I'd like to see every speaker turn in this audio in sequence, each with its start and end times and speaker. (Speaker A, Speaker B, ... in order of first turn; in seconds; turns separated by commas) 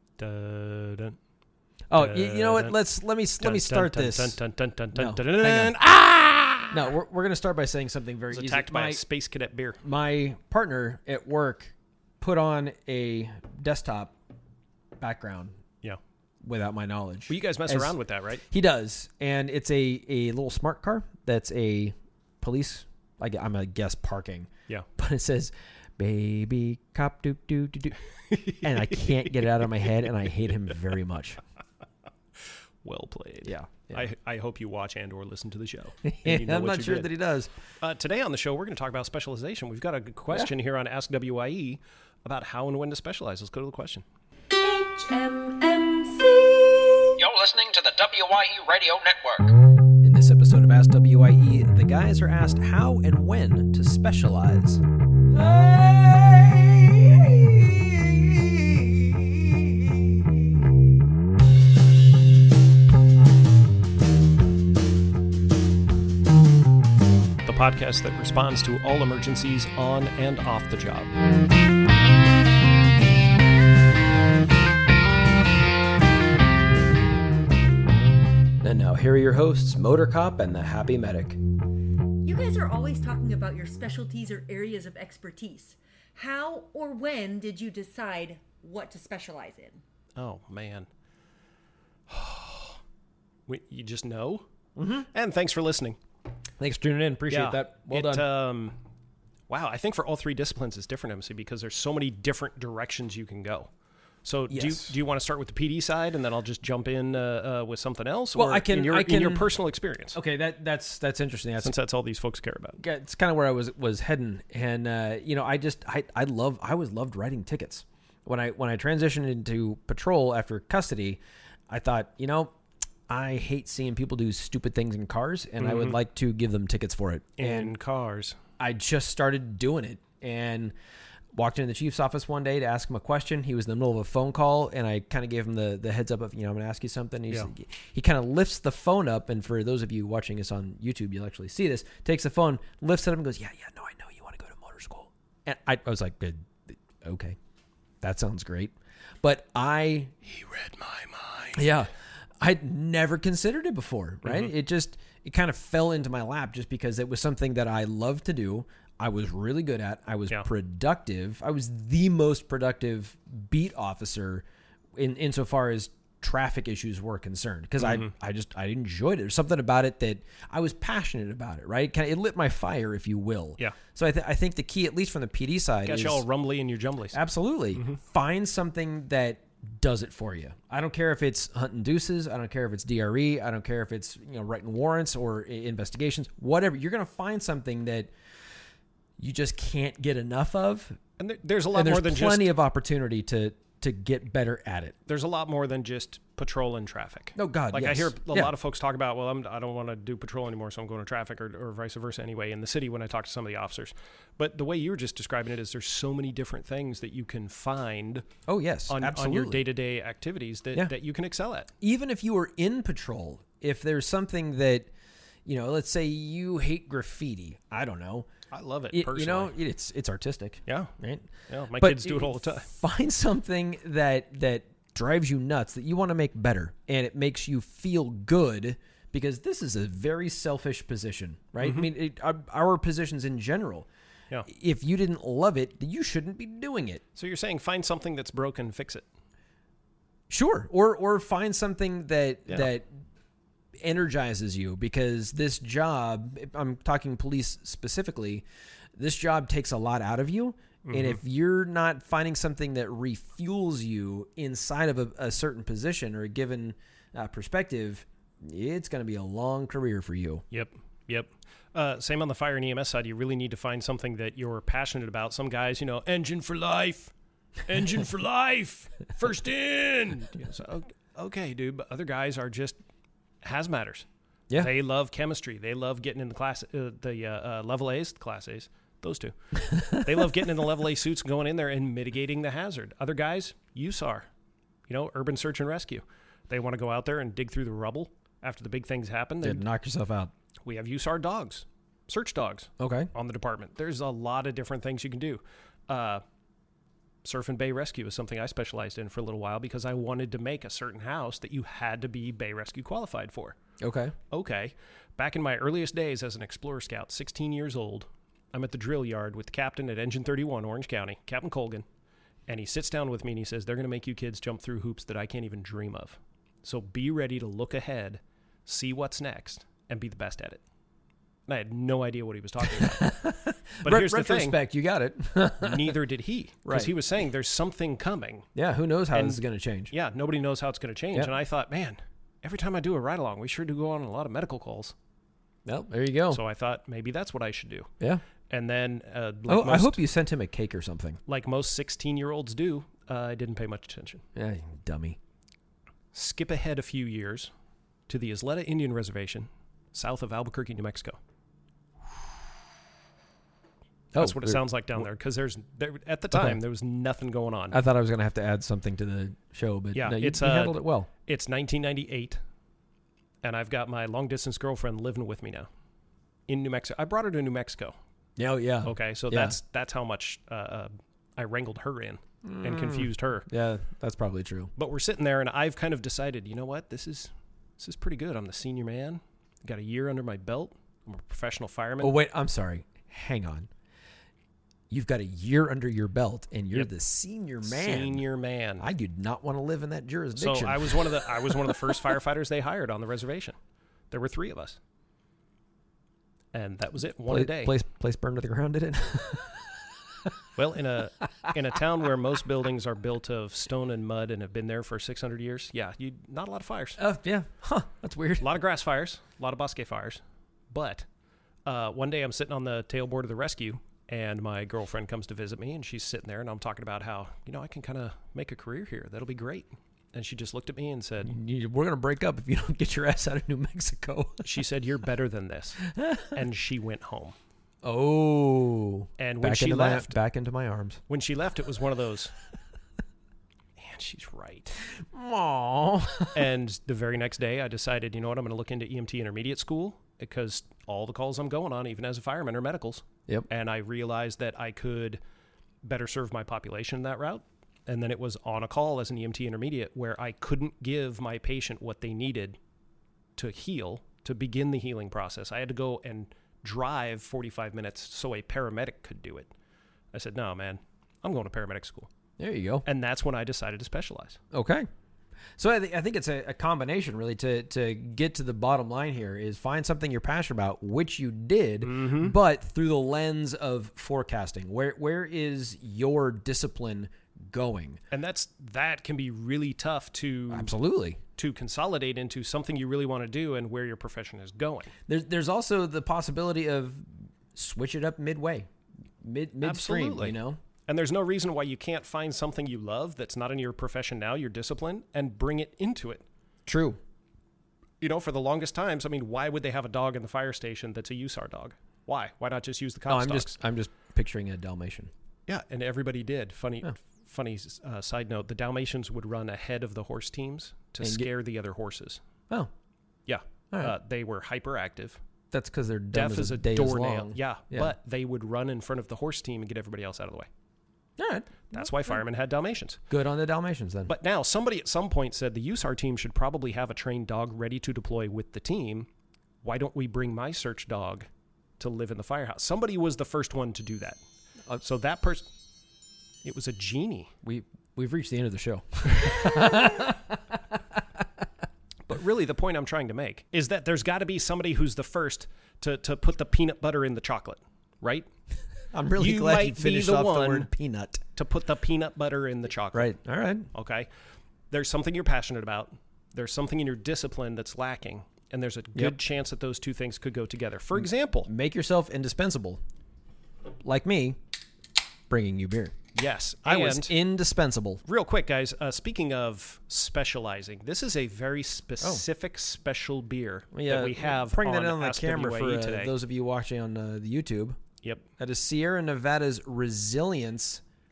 Speaker A: 0.2-1.2, Speaker B: 1.9-4.4, Speaker A: 1.9-2.8, Speaker A: 3.4-6.9, Speaker B: 4.9-5.8, Speaker B: 6.7-9.0, Speaker A: 8.3-9.8, Speaker B: 9.8-14.1, Speaker B: 15.0-15.6, Speaker B: 16.4-17.9, Speaker A: 17.3-18.4, Speaker B: 18.5-31.4, Speaker A: 28.3-29.4, Speaker A: 32.4-37.1, Speaker B: 33.4-34.1, Speaker B: 36.0-37.5, Speaker A: 37.8-44.0, Speaker C: 44.6-47.2, Speaker D: 47.2-49.5, Speaker B: 50.0-54.8, Speaker B: 55.3-58.9, Speaker A: 67.5-71.1, Speaker B: 78.6-81.4, Speaker C: 82.2-89.8, Speaker A: 90.2-90.9, Speaker A: 92.1-92.8, Speaker A: 93.5-94.5, Speaker B: 94.8-95.1, Speaker A: 95.1-96.0, Speaker B: 96.6-98.3, Speaker A: 97.3-98.8, Speaker A: 99.5-103.7, Speaker A: 104.2-110.2, Speaker B: 104.5-104.9, Speaker B: 108.3-109.5, Speaker B: 110.1-111.7, Speaker A: 111.6-112.8, Speaker B: 112.8-122.5, Speaker B: 123.1-127.7, Speaker A: 125.6-126.0, Speaker A: 127.4-128.4, Speaker B: 128.6-130.7, Speaker B: 131.3-147.4, Speaker B: 148.0-150.1, Speaker A: 150.2-151.7, Speaker B: 151.6-176.2, Speaker A: 154.2-154.5, Speaker A: 167.8-168.1, Speaker A: 175.8-177.2, Speaker B: 177.1-188.1, Speaker A: 177.7-178.0, Speaker B: 189.2-191.0, Speaker A: 191.2-192.5, Speaker B: 191.7-195.0, Speaker A: 195.1-208.2, Speaker B: 197.3-198.5, Speaker B: 208.5-209.6, Speaker A: 208.9-211.7, Speaker B: 211.8-214.9, Speaker B: 215.5-218.3, Speaker A: 218.5-219.6, Speaker B: 218.9-233.9, Speaker A: 220.7-220.9, Speaker A: 221.5-222.7, Speaker A: 231.6-231.9, Speaker B: 234.5-237.0, Speaker A: 237.2-239.1, Speaker B: 240.3-242.9, Speaker B: 243.8-248.4, Speaker B: 249.0-260.4, Speaker A: 250.9-251.2, Speaker A: 260.5-267.1, Speaker A: 267.7-272.8, Speaker A: 273.4-274.1, Speaker A: 274.6-284.3, Speaker B: 279.6-280.1, Speaker A: 284.9-289.6, Speaker B: 289.4-290.3, Speaker A: 290.6-296.2, Speaker B: 292.8-293.1, Speaker A: 297.2-303.6, Speaker B: 303.8-304.1, Speaker A: 304.3-311.9, Speaker A: 312.5-320.6, Speaker A: 321.5-323.1, Speaker B: 322.7-326.0, Speaker A: 323.8-324.6, Speaker A: 325.6-328.5, Speaker B: 326.6-326.9, Speaker B: 328.6-329.9, Speaker A: 329.1-334.9, Speaker B: 335.7-336.4, Speaker A: 336.3-337.9, Speaker A: 338.5-340.0, Speaker B: 339.5-341.2, Speaker A: 341.3-344.2, Speaker B: 344.4-345.2, Speaker A: 346.1-347.5, Speaker A: 348.1-351.2, Speaker B: 354.1-355.0, Speaker A: 354.2-357.8, Speaker B: 356.3-356.6, Speaker B: 357.7-361.1, Speaker A: 359.9-362.4, Speaker A: 363.4-365.7, Speaker A: 366.5-368.0, Speaker B: 368.4-369.6, Speaker A: 368.8-373.5, Speaker B: 372.4-374.7, Speaker A: 374.8-382.2, Speaker B: 382.0-383.7, Speaker B: 384.9-388.2, Speaker A: 387.6-388.9, Speaker B: 388.8-392.0, Speaker A: 390.4-393.6, Speaker A: 394.1-394.8, Speaker A: 396.5-397.7, Speaker B: 397.3-399.7, Speaker A: 400.6-407.0, Speaker B: 407.0-408.5, Speaker A: 408.4-411.1, Speaker A: 411.6-421.3, Speaker B: 421.2-424.5, Speaker A: 424.4-427.4, Speaker B: 425.9-426.3, Speaker B: 427.8-431.0, Speaker A: 429.2-430.1, Speaker A: 431.1-432.3, Speaker A: 433.8-434.8, Speaker B: 435.1-436.4, Speaker A: 436.3-445.2, Speaker A: 445.8-452.6, Speaker A: 453.4-459.5, Speaker A: 460.1-462.1, Speaker B: 462.4-462.9, Speaker A: 462.9-464.4, Speaker B: 464.5-464.9, Speaker B: 465.6-478.0, Speaker A: 471.8-472.4, Speaker A: 478.1-480.7, Speaker B: 480.5-481.2, Speaker A: 481.4-484.9, Speaker B: 485.1-488.7, Speaker B: 489.2-490.6, Speaker A: 489.6-496.2, Speaker B: 496.7-497.0, Speaker A: 498.0-503.6, Speaker B: 503.1-505.1, Speaker A: 505.5-512.2, Speaker B: 511.0-511.3, Speaker A: 513.3-515.2, Speaker B: 515.5-517.9, Speaker A: 516.1-520.5, Speaker B: 521.2-522.2, Speaker A: 521.7-523.0, Speaker B: 523.1-524.1, Speaker A: 524.1-529.1, Speaker A: 529.6-531.3, Speaker A: 531.8-534.2, Speaker A: 534.8-535.5, Speaker A: 536.4-537.3, Speaker B: 537.4-540.8, Speaker A: 542.1-548.3, Speaker B: 548.9-551.2, Speaker A: 549.2-550.7, Speaker A: 551.4-553.1, Speaker B: 552.9-553.7, Speaker A: 553.7-554.1, Speaker A: 554.7-561.5, Speaker B: 561.5-562.8, Speaker B: 563.8-564.4, Speaker B: 565.3-566.0, Speaker A: 566.1-567.2, Speaker B: 566.6-568.0, Speaker A: 568.0-576.1, Speaker B: 573.7-577.8, Speaker B: 578.4-580.8